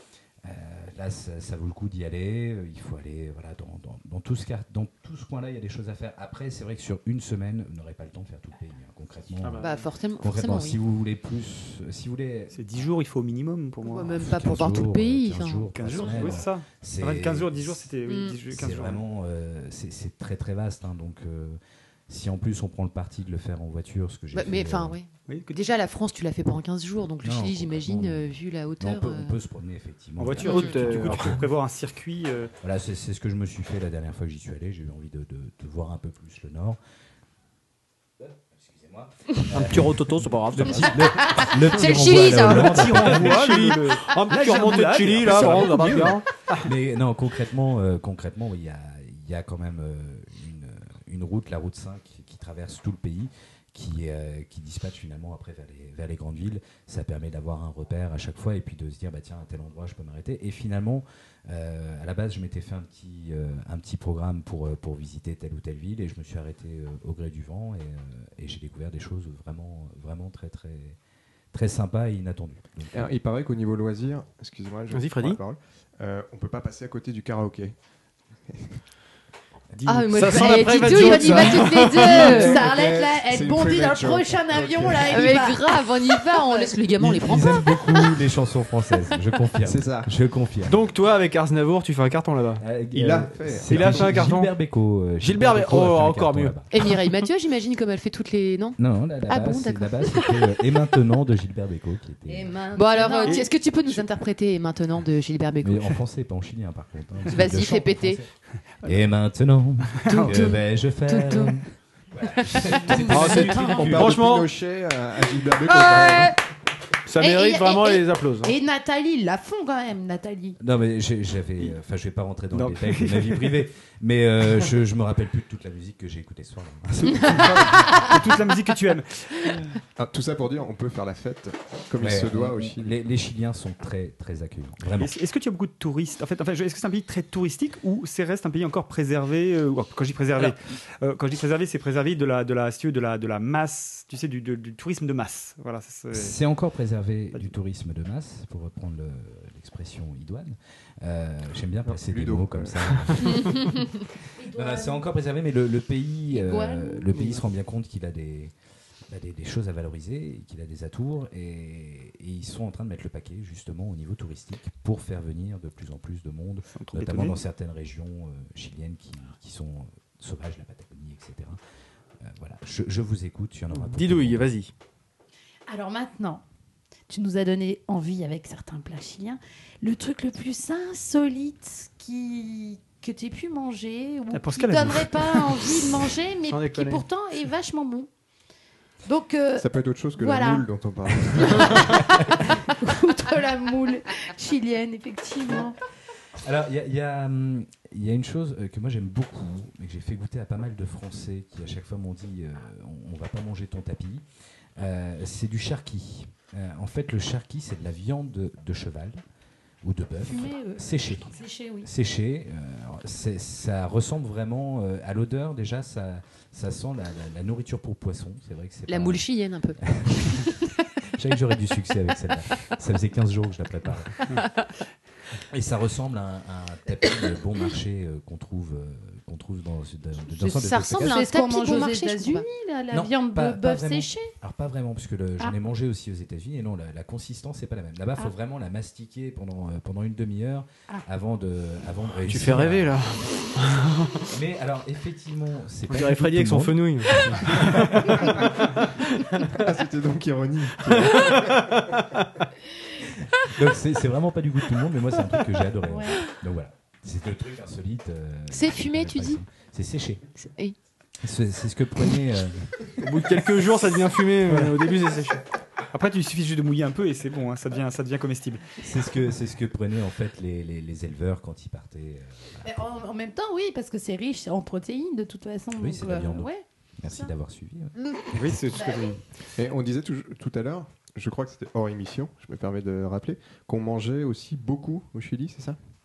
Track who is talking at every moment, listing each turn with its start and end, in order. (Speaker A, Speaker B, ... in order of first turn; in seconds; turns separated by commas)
Speaker A: 0.4-12.6, Speaker B: 9.4-9.8, Speaker C: 9.6-10.8, Speaker D: 12.5-14.2, Speaker C: 13.8-16.3, Speaker A: 14.2-17.8, Speaker D: 15.7-19.0, Speaker C: 18.1-18.4, Speaker A: 18.5-25.0, Speaker C: 24.3-29.4, Speaker D: 25.3-25.6, Speaker A: 27.2-31.4, Speaker D: 30.2-32.5, Speaker B: 30.3-31.4, Speaker A: 32.6-36.8, Speaker A: 38.2-43.5, Speaker B: 39.5-41.5, Speaker C: 41.2-42.9, Speaker B: 42.1-46.7, Speaker D: 42.5-46.2, Speaker A: 45.2-45.9, Speaker A: 46.6-71.0, Speaker A: 71.5-73.1, Speaker E: 72.9-77.7, Speaker B: 74.9-75.4, Speaker E: 78.5-78.8, Speaker D: 79.8-80.5, Speaker C: 79.8-82.6, Speaker B: 80.1-82.7, Speaker F: 80.9-86.7, Speaker E: 82.4-85.1, Speaker C: 85.1-88.0, Speaker A: 87.0-90.8, Speaker E: 89.6-90.1, Speaker B: 90.6-92.6, Speaker A: 92.6-96.7, Speaker E: 92.9-94.3, Speaker B: 93.6-94.6, Speaker B: 95.2-96.6, Speaker C: 96.7-100.6, Speaker A: 98.8-102.6, Speaker F: 102.3-103.5, Speaker C: 102.7-105.9, Speaker A: 105.6-108.3, Speaker C: 107.3-108.2, Speaker A: 108.8-114.2, Speaker D: 110.0-110.4, Speaker C: 110.0-111.6, Speaker C: 112.4-113.1, Speaker B: 113.0-114.5, Speaker E: 113.3-116.3, Speaker D: 113.4-113.8, Speaker B: 117.0-118.5, Speaker F: 117.2-120.6, Speaker A: 120.6-128.1, Speaker D: 122.5-123.6, Speaker D: 127.1-129.6, Speaker E: 127.1-128.0, Speaker E: 130.0-132.9, Speaker A: 132.0-135.1, Speaker D: 135.0-146.3, Speaker A: 146.1-158.5, Speaker E: 151.8-153.6, Speaker F: 154.4-155.1, Speaker F: 156.3-157.1, Speaker B: 157.1-157.4, Speaker A: 159.1-171.6, Speaker D: 166.7-167.4, Speaker A: 172.2-174.5, Speaker B: 173.7-174.7, Speaker F: 175.7-176.4, Speaker F: 177.1-188.1, Speaker D: 184.3-185.7, Speaker B: 186.5-187.0, Speaker F: 189.0-190.7, Speaker E: 189.6-192.0, Speaker F: 192.7-195.8, Speaker A: 196.4-204.2, Speaker A: 204.8-209.2, Speaker A: 209.8-219.2, Speaker F: 210.2-211.9, Speaker C: 218.9-220.5, Speaker A: 219.8-220.6, Speaker A: 221.1-224.4, Speaker A: 225.5-231.2, Speaker C: 230.4-232.4, Speaker F: 231.0-234.3, Speaker A: 232.9-243.2, Speaker B: 242.2-244.2, Speaker A: 244.3-248.4, Speaker B: 245.9-248.8, Speaker E: 249.5-251.7, Speaker A: 253.4-260.2, Speaker F: 255.9-256.2, Speaker C: 258.5-259.4, Speaker C: 260.4-260.8, Speaker A: 261.2-262.9, Speaker B: 263.0-265.4, Speaker D: 264.5-264.7, Speaker D: 265.9-268.6, Speaker A: 268.8-272.8, Speaker F: 272.6-277.3, Speaker A: 275.7-278.6, Speaker D: 278.3-279.2, Speaker F: 278.7-279.1, Speaker E: 279.5-285.8